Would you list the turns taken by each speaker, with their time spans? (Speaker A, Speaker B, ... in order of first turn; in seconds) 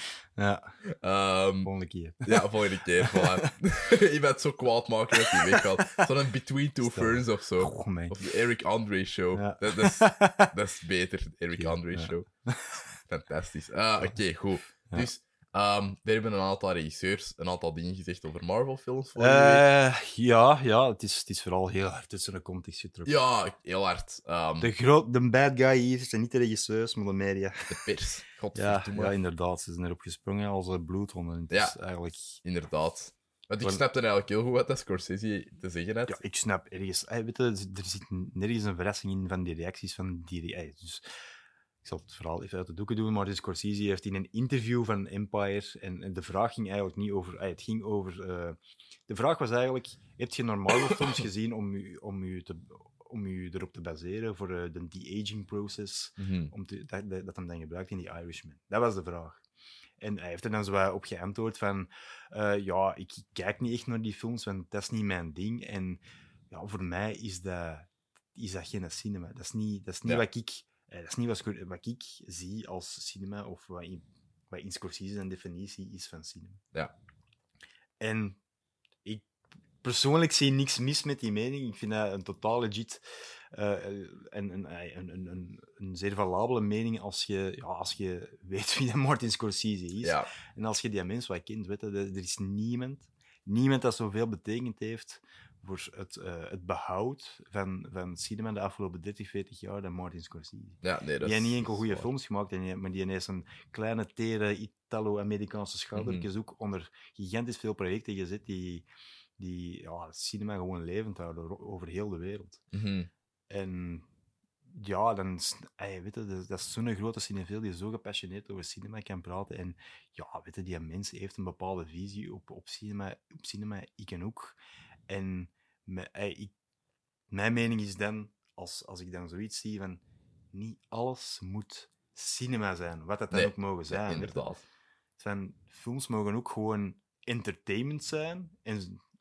Speaker A: 0.3-0.8, 1.6-3.5, 5.2-6.0, 6.8-8.3, 9.3-10.5, 11.6-12.8, 19.1-23.1, 24.6-27.8, 28.5-32.4, 36.1-41.0, 41.8-59.4, 60.0-76.6, 78.0-78.4, 79.8-108.8, 109.4-112.6, 113.5-114.0, 114.7-124.6, 125.1-126.5, 127.3-134.5, 135.2-139.0
Speaker B: 0.9-1.7, 2.2-12.3, 13.1-19.7, 23.1-24.7, 27.7-29.1, 32.4-36.2, 56.2-56.5, 90.0-90.3, 100.8-102.1, 105.9-106.2, 112.7-113.1, 133.3-134.6